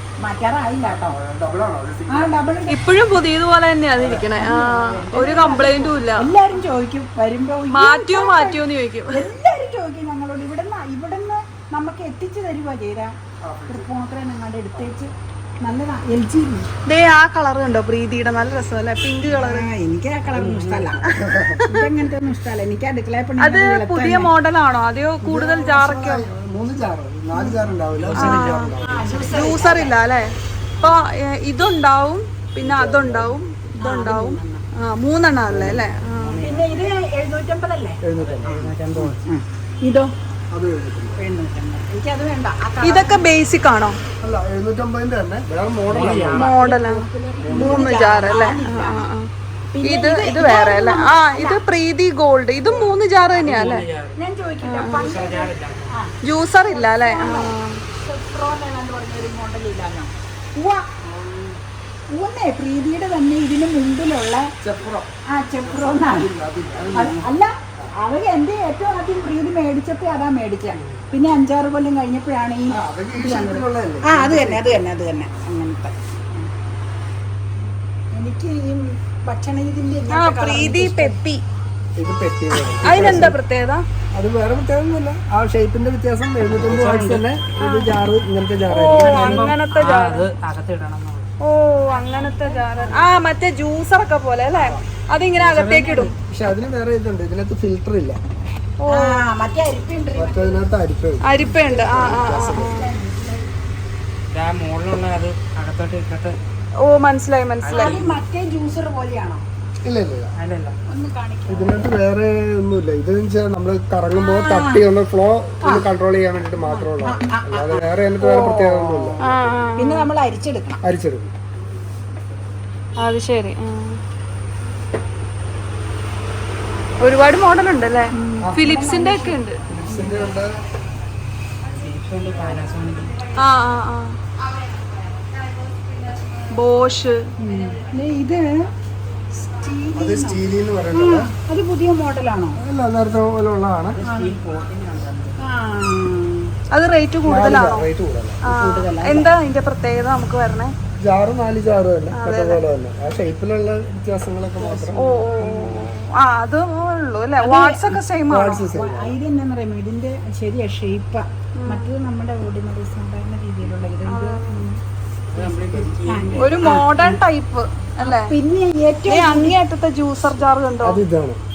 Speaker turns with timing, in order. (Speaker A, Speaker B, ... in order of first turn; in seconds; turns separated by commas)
Speaker A: 0.2-1.2, Speaker B: 0.8-2.3, Speaker A: 2.1-2.8, Speaker C: 2.7-6.3, Speaker B: 4.0-4.2, Speaker A: 4.3-13.1, Speaker C: 7.7-9.2, Speaker B: 13.4-13.9, Speaker A: 13.7-16.7, Speaker C: 16.9-19.7, Speaker A: 19.3-21.1, Speaker D: 20.3-21.1, Speaker C: 21.1-21.9, Speaker B: 21.1-21.6, Speaker A: 21.6-24.3, Speaker C: 23.4-26.2, Speaker B: 25.2-29.3, Speaker D: 27.9-28.4, Speaker C: 28.1-28.7, Speaker A: 28.3-30.0, Speaker C: 29.3-36.4, Speaker A: 30.8-31.0, Speaker B: 32.6-33.4, Speaker A: 33.8-34.6, Speaker B: 35.5-35.8, Speaker D: 36.1-36.8, Speaker A: 36.4-38.0, Speaker B: 38.0-39.1, Speaker D: 38.2-39.2, Speaker A: 39.2-40.1, Speaker B: 40.5-41.2, Speaker A: 41.2-43.2, Speaker C: 42.8-44.0, Speaker B: 44.2-46.4, Speaker D: 45.9-46.6, Speaker A: 45.9-49.0, Speaker C: 46.3-49.3, Speaker B: 47.4-47.9, Speaker A: 49.7-51.6, Speaker C: 49.8-53.9, Speaker D: 52.6-54.2, Speaker A: 54.1-61.5, Speaker C: 54.6-55.0, Speaker D: 54.9-55.9, Speaker C: 56.2-57.8, Speaker A: 62.1-64.5, Speaker B: 64.6-65.1, Speaker A: 65.3-66.3, Speaker B: 65.6-67.2, Speaker D: 66.7-67.2, Speaker A: 66.9-76.5, Speaker D: 70.7-71.0, Speaker B: 72.7-74.8, Speaker A: 78.1-81.2, Speaker C: 80.1-81.4, Speaker B: 82.0-83.4, Speaker C: 82.8-83.8, Speaker A: 82.9-83.2, Speaker B: 84.1-89.5, Speaker D: 86.5-87.2, Speaker A: 86.8-87.1, Speaker C: 87.6-87.9, Speaker C: 88.7-90.3, Speaker D: 89.0-91.2, Speaker A: 89.3-89.9, Speaker C: 91.4-96.1, Speaker A: 91.9-93.2, Speaker B: 94.5-94.8, Speaker D: 95.4-96.1, Speaker B: 96.3-98.2, Speaker C: 98.8-99.2, Speaker A: 98.9-100.6, Speaker B: 100.1-102.8, Speaker C: 101.2-102.9, Speaker A: 101.4-103.5, Speaker D: 104.3-106.4, Speaker C: 106.8-108.0, Speaker D: 107.6-108.2, Speaker A: 107.7-109.4, Speaker B: 109.8-110.3, Speaker D: 110.4-110.7, Speaker A: 110.9-111.9, Speaker B: 111.5-119.2, Speaker A: 114.2-114.8, Speaker A: 116.7-120.8, Speaker C: 119.2-120.1, Speaker B: 120.8-121.3, Speaker C: 123.0-124.0, Speaker C: 127.0-129.6, Speaker A: 128.1-129.4, Speaker B: 129.7-130.5, Speaker D: 131.7-133.2, Speaker C: 133.4-134.2, Speaker C: 136.5-137.3, Speaker A: 137.4-138.6, Speaker A: 139.3-140.4, Speaker B: 139.9-141.3, Speaker A: 140.9-142.6, Speaker B: 142.6-144.0, Speaker D: 143.9-145.4, Speaker A: 144.0-144.4, Speaker A: 145.4-146.5, Speaker C: 146.7-147.8, Speaker B: 147.2-148.4, Speaker A: 148.4-149.3, Speaker C: 148.5-150.7, Speaker B: 151.0-155.9, Speaker C: 152.2-152.6, Speaker A: 154.6-155.8, Speaker C: 155.0-158.7, Speaker A: 157.4-158.0, Speaker B: 158.3-159.2, Speaker A: 158.7-164.6, Speaker C: 161.6-161.9, Speaker C: 164.1-164.8, Speaker D: 165.3-166.5, Speaker A: 166.0-167.2, Speaker C: 166.4-168.3, Speaker A: 168.0-169.5, Speaker C: 169.1-171.0, Speaker B: 170.8-171.4